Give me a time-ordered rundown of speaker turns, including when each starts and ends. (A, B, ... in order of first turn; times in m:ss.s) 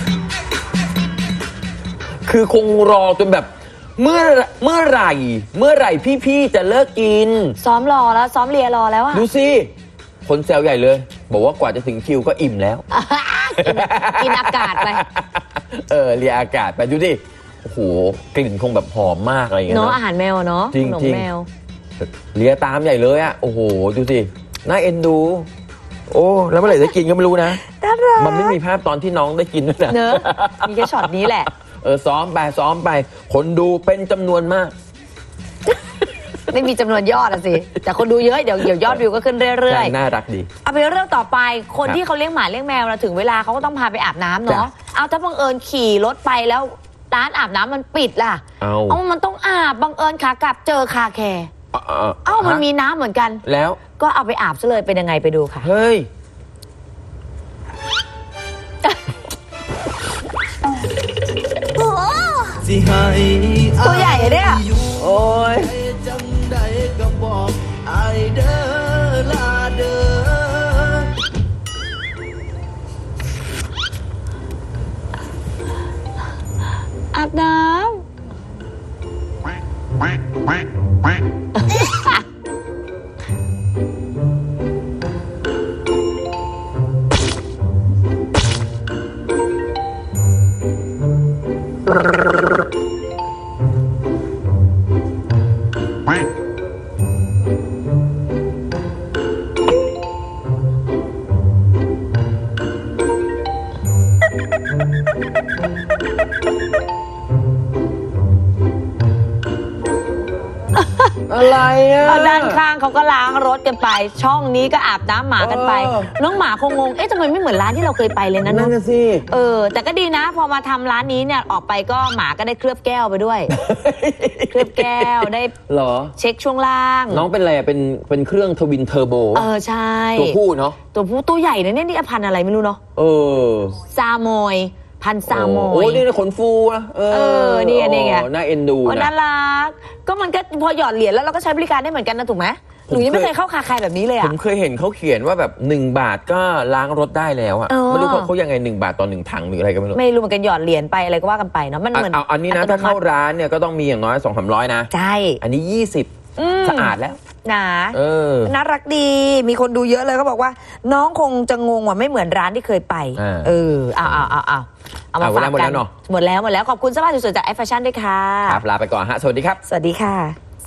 0:02.2-0:07.6 A
0:07.6-0:09.2 B
0:09.1-0:09.7 A
0:10.2-0:12.8 A
0:12.9-0:15.0 B
0:13.6-0:20.0 A
0:19.7-0:21.5 B
0:20.7-0:21.3 A
0:22.0-0:25.5 A
0:26.1-0:27.6 A
0:27.5-0:28.6 B
0:28.2-0:34.8 A
0:29.9-0:31.5 B
0:36.5-0:39.9 B
0:39.7-0:40.5 A
0:40.6-0:51.5 B
0:48.6-0:49.0 A
0:51.7-0:52.6 A
0:52.2-0:53.4 B
0:53.4-0:53.8 A
0:54.0-0:55.7 B
0:55.6-0:56.1 A
1:01.8-1:02.6 B
1:02.6-1:05.0 C
1:03.8-1:04.7 B
1:04.9-1:05.8 A
1:05.7-1:11.1 C
1:17.1-1:18.1 B
1:21.6-1:22.2 B
1:50.8-1:51.1 B
1:51.3-1:52.6 A
1:52.0-1:58.7 B
1:55.4-1:56.1 A
1:58.4-1:59.3 A
1:59.3-2:03.5 B
2:03.5-2:06.1 A
2:04.5-2:05.5 B
2:06.2-2:07.3 B
2:07.1-2:09.5 A
2:09.4-2:10.4 B
2:10.2-2:10.8 A
2:10.9-2:12.8 B
2:13.0-2:13.8 A
2:13.9-2:16.0 B
2:15.3-2:19.1 A
2:17.1-2:18.3 B
2:18.8-2:24.4 B
2:22.9-2:23.3 A
2:24.2-2:30.0 A
2:27.7-2:28.3 B
2:29.9-2:33.0 B
2:31.9-2:34.9 A
2:34.9-2:35.4 B
2:35.4-2:37.2 A
2:36.4-2:48.6 B
2:37.9-2:38.5 A
2:43.2-2:43.6 A
2:45.2-2:45.9 A
2:48.5-2:49.6 A
2:49.6-2:50.4 B